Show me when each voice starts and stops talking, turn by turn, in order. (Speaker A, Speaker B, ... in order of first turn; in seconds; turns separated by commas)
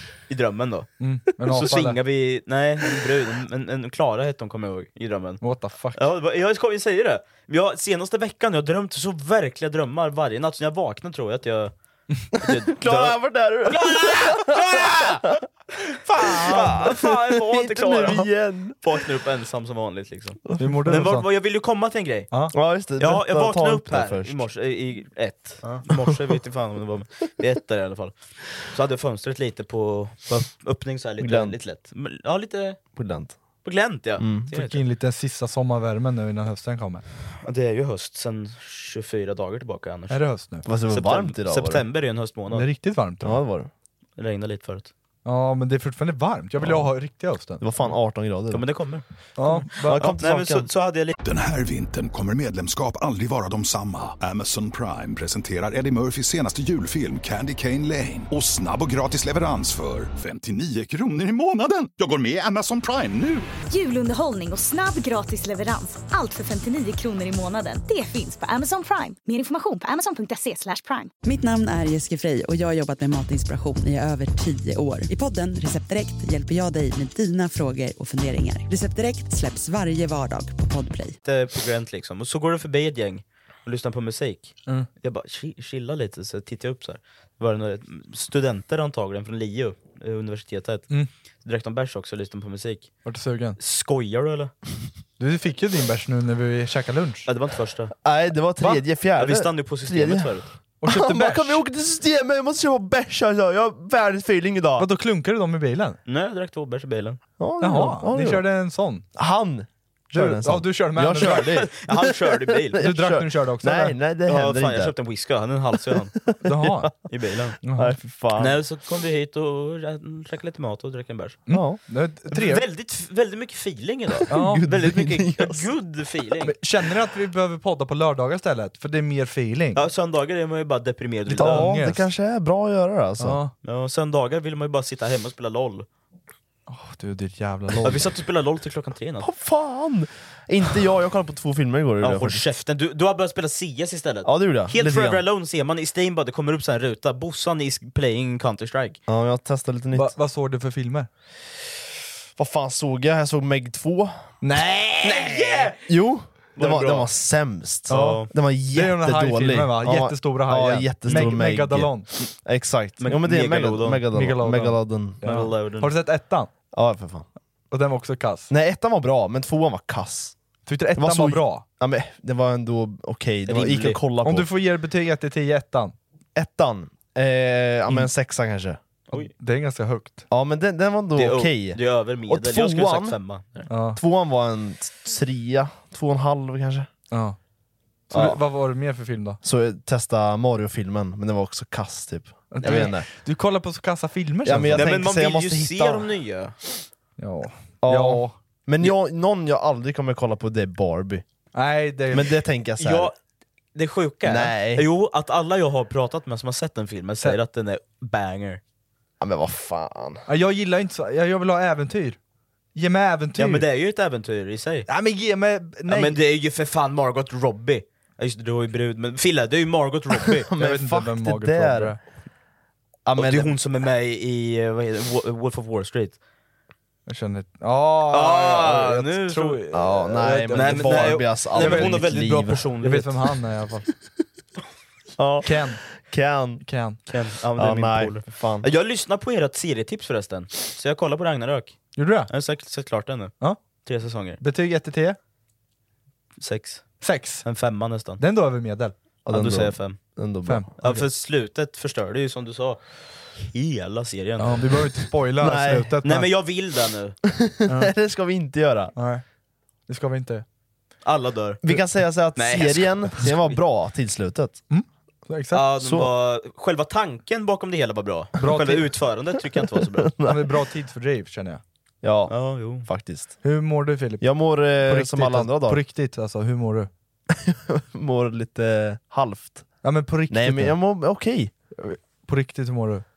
Speaker A: 0.3-0.9, Speaker B: 1.0-2.0, Speaker A: 1.4-5.4, Speaker B: 5.4-6.0, Speaker A: 5.9-11.7, Speaker A: 12.3-15.3, Speaker C: 12.4-15.3, Speaker A: 16.1-22.3, Speaker C: 16.2-19.0, Speaker C: 20.5-20.8, Speaker B: 20.6-21.3, Speaker C: 22.5-24.4, Speaker A: 23.0-32.8, Speaker C: 31.2-31.6, Speaker C: 33.0-33.4, Speaker A: 33.6-34.8, Speaker C: 34.2-34.5, Speaker B: 34.5-37.0, Speaker A: 37.4-40.2, Speaker B: 40.1-40.6, Speaker C: 40.6-41.8, Speaker A: 40.9-42.7, Speaker B: 42.5-43.4, Speaker C: 43.2-43.7, Speaker A: 44.2-44.9, Speaker B: 45.2-47.6, Speaker C: 46.6-46.9, Speaker C: 47.6-48.6, Speaker A: 48.5-51.2, Speaker B: 49.4-50.1, Speaker C: 49.8-50.7, Speaker D: 51.2-63.5, Speaker E: 63.7-71.1, Speaker F: 71.2-81.2, Speaker A: 81.2-90.9, Speaker A: 91.5-92.9, Speaker B: 93.0-93.6, Speaker A: 93.6-94.5, Speaker B: 95.2-97.3, Speaker A: 97.3-97.9, Speaker C: 98.0-104.9, Speaker A: 99.2-100.5, Speaker B: 100.8-101.6, Speaker B: 104.8-106.0, Speaker A: 106.1-107.2, Speaker C: 107.4-108.5, Speaker B: 107.6-109.1, Speaker C: 109.2-114.9, Speaker B: 110.1-111.6, Speaker A: 111.2-112.8, Speaker B: 112.8-114.0, Speaker A: 114.2-116.1, Speaker C: 116.2-116.9, Speaker B: 116.4-116.9, Speaker A: 117.1-117.6, Speaker B: 117.6-118.0, Speaker C: 117.8-118.6, Speaker A: 118.4-121.4, Speaker B: 121.5-122.6, Speaker C: 121.5-121.8, Speaker A: 122.3-126.5, Speaker C: 124.2-125.7, Speaker B: 124.3-124.7, Speaker B: 126.5-129.8, Speaker A: 129.8-131.7, Speaker B: 131.3-132.1, Speaker C: 131.4-133.4, Speaker B: 133.2-133.5, Speaker A: 133.6-135.9, Speaker B: 136.7-138.1, Speaker A: 137.8-139.3, Speaker C: 139.2-142.4, Speaker A: 142.0-149.0, Speaker C: 144.2-145.2, Speaker C: 149.1-150.2, Speaker B: 149.9-151.1, Speaker C: 152.4-154.1, Speaker B: 154.4-155.7, Speaker A: 155.0-155.9, Speaker C: 155.9-165.3, Speaker A: 156.6-157.1, Speaker B: 157.9-162.1, Speaker A: 157.9-158.3, Speaker A: 163.0-164.0, Speaker B: 164.1-166.5, Speaker A: 165.2-165.9, Speaker C: 166.7-167.3, Speaker B: 167.7-168.5, Speaker C: 168.5-170.4, Speaker B: 170.7-171.7, Speaker C: 171.0-174.5, Speaker A: 173.5-174.0, Speaker B: 174.2-175.9, Speaker C: 176.3-178.8, Speaker B: 179.1-180.2, Speaker C: 180.3-183.2, Speaker A: 181.2-183.7, Speaker B: 183.7-184.0, Speaker C: 183.9-186.9, Speaker B: 187.1-187.4, Speaker C: 188.1-188.4, Speaker B: 188.1-189.4, Speaker C: 189.4-193.1, Speaker B: 192.5-195.1, Speaker C: 194.4-196.1, Speaker A: 194.7-196.6, Speaker B: 197.2-198.4, Speaker C: 197.8-201.2, Speaker B: 201.5-202.3, Speaker C: 202.1-203.1, Speaker A: 202.8-203.2, Speaker A: 203.8-208.6, Speaker C: 204.2-204.9, Speaker C: 209.2-210.2, Speaker B: 210.3-212.2, Speaker B: 212.8-213.7, Speaker A: 213.4-214.9, Speaker B: 214.9-216.2, Speaker A: 215.9-220.5, Speaker C: 220.4-222.0, Speaker B: 220.6-222.0, Speaker C: 223.1-223.6, Speaker A: 223.2-226.2, Speaker B: 227.1-232.2, Speaker A: 228.1-229.7, Speaker C: 229.7-232.7, Speaker A: 230.5-233.1, Speaker B: 232.8-233.9, Speaker C: 235.2-236.6, Speaker B: 235.4-235.8, Speaker B: 236.6-237.0, Speaker A: 237.1-244.4, Speaker C: 237.6-238.7, Speaker B: 242.0-242.3, Speaker B: 244.4-245.2, Speaker A: 246.4-248.2, Speaker B: 247.0-247.5, Speaker B: 248.2-248.9, Speaker C: 249.2-250.7, Speaker A: 249.3-250.0, Speaker B: 250.5-251.1, Speaker A: 250.8-252.8, Speaker A: 253.4-254.7, Speaker B: 254.4-256.3, Speaker C: 255.4-255.9, Speaker A: 256.0-257.2, Speaker C: 257.3-258.9, Speaker B: 257.7-257.9, Speaker B: 258.9-259.2, Speaker B: 259.9-260.4, Speaker A: 261.0-261.7, Speaker C: 261.6-264.6, Speaker A: 262.4-263.6, Speaker B: 264.7-265.6, Speaker A: 265.5-270.1, Speaker C: 265.8-266.1, Speaker B: 268.4-268.9, Speaker C: 269.7-270.5, Speaker B: 270.2-271.6, Speaker C: 272.0-273.4, Speaker A: 272.3-272.9, Speaker B: 273.4-276.9, Speaker C: 274.2-275.8, Speaker C: 277.3-279.7, Speaker B: 279.8-280.8, Speaker C: 280.3-281.5, Speaker B: 281.8-283.0